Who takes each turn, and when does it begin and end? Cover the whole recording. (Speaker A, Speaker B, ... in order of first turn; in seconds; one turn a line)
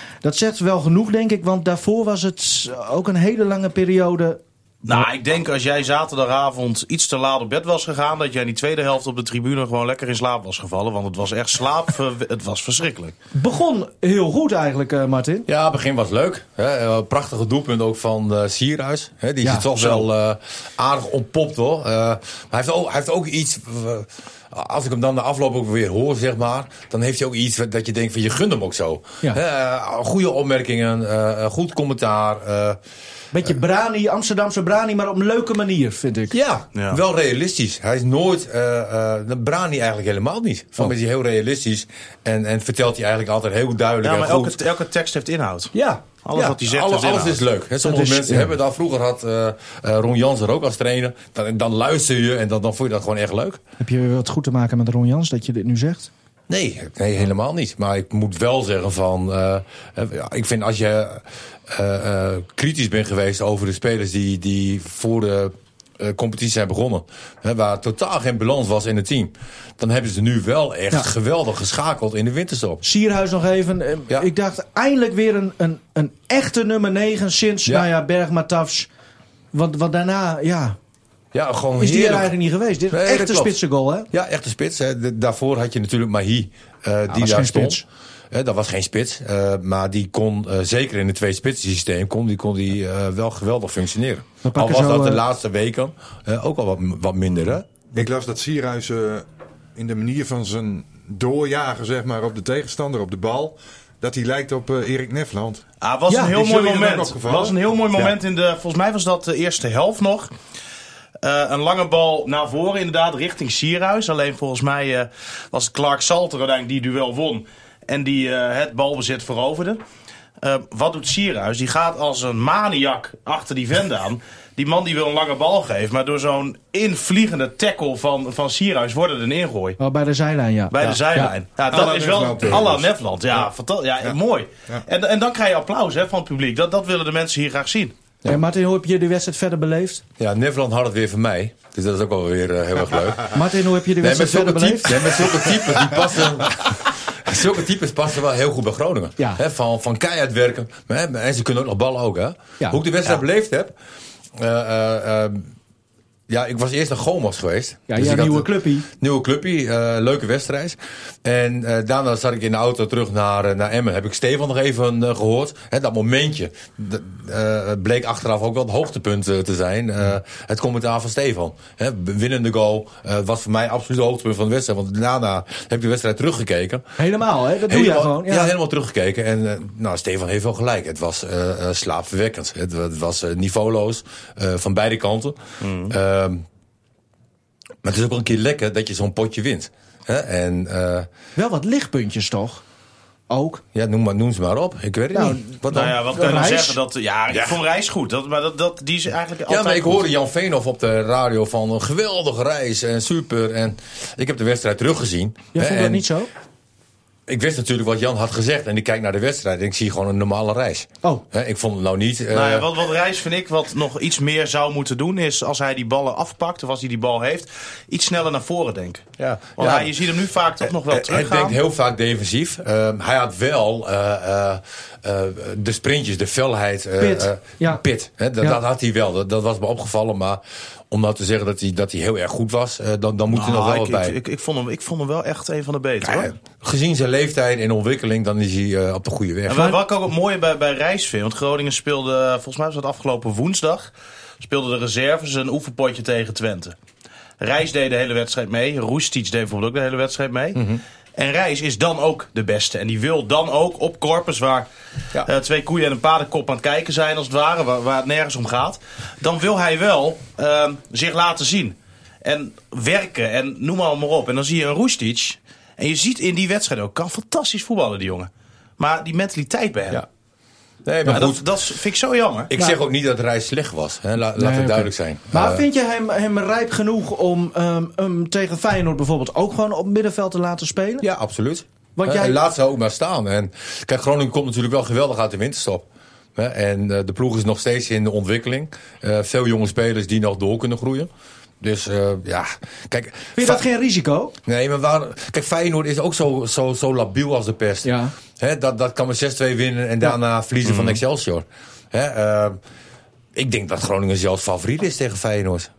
Speaker A: 0.2-5.0
Speaker B: 4.8-13.2
Speaker A: 13.3-15.5
Speaker C: 15.5-32.8
Speaker B: 19.7-20.1
Speaker A: 33.3-36.4
Speaker C: 36.3-44.6
Speaker B: 36.7-37.0
Speaker B: 44.0-47.4
Speaker C: 45.7-53.6
Speaker A: 47.8-48.5
Speaker A: 53.8-56.1
Speaker C: 56.5-72.8
Speaker A: 72.8-78.9
Speaker A: 79.5-80.8
Speaker C: 81.3-82.3
Speaker A: 81.8-84.1
Speaker C: 82.9-83.6
Speaker C: 84.1-97.9
Speaker A: 87.1-87.8
Speaker A: 94.4-95.2
Speaker D: 97.9-99.2
Speaker D: 99.8-107.6
Speaker B: 105.8-110.3
Speaker B: 111.2-119.8
Speaker B: 120.4-129.8
Speaker A: 129.8-131.3
Speaker B: 130.7-137.9
Speaker D: 131.7-133.5
Speaker A: 138.2-140.0
Speaker C: 140.2-143.4
Speaker A: 143.3-145.2
Speaker C: 144.0-153.7
Speaker C: 154.3-155.5
Speaker C: 156.3-176.8
Speaker A: 157.9-158.9
Speaker A: 177.0-178.5
Speaker C: 177.7-185.4
Speaker B: 185.6-185.9
Speaker C: 185.9-186.4
Speaker C: 187.8-191.1
Speaker A: 191.3-192.6
Speaker A: 193.3-193.6
Speaker C: 193.7-196.0
Speaker A: 195.1-196.8
Speaker B: 195.7-200.1
Speaker C: 197.3-197.6
Speaker C: 199.5-206.1
Speaker A: 205.5-206.3
Speaker C: 207.3-212.7
Speaker B: 212.3-221.6
Speaker C: 219.2-219.9
Speaker C: 220.8-234.1
Speaker A: 227.0-227.8
Speaker B: 233.3-236.3
Speaker C: 236.0-239.8
Speaker B: 239.5-246.8
Speaker B: 247.4-250.6
Speaker C: 250.5-250.8
Speaker B: 251.2-254.7
Speaker B: 255.2-270.0
Speaker C: 270.8-271.4
Speaker B: 271.1-272.5
Speaker C: 272.5-275.6
Speaker A: 274.4-281.1
Speaker C: 281.0-291.1
Speaker A: 282.0-282.4
Speaker C: 291.6-293.6
Speaker A: 293.4-294.3
Speaker C: 294.4-302.6
Speaker A: 297.8-298.1
Speaker B: 300.6-301.0
Speaker C: 303.4-305.7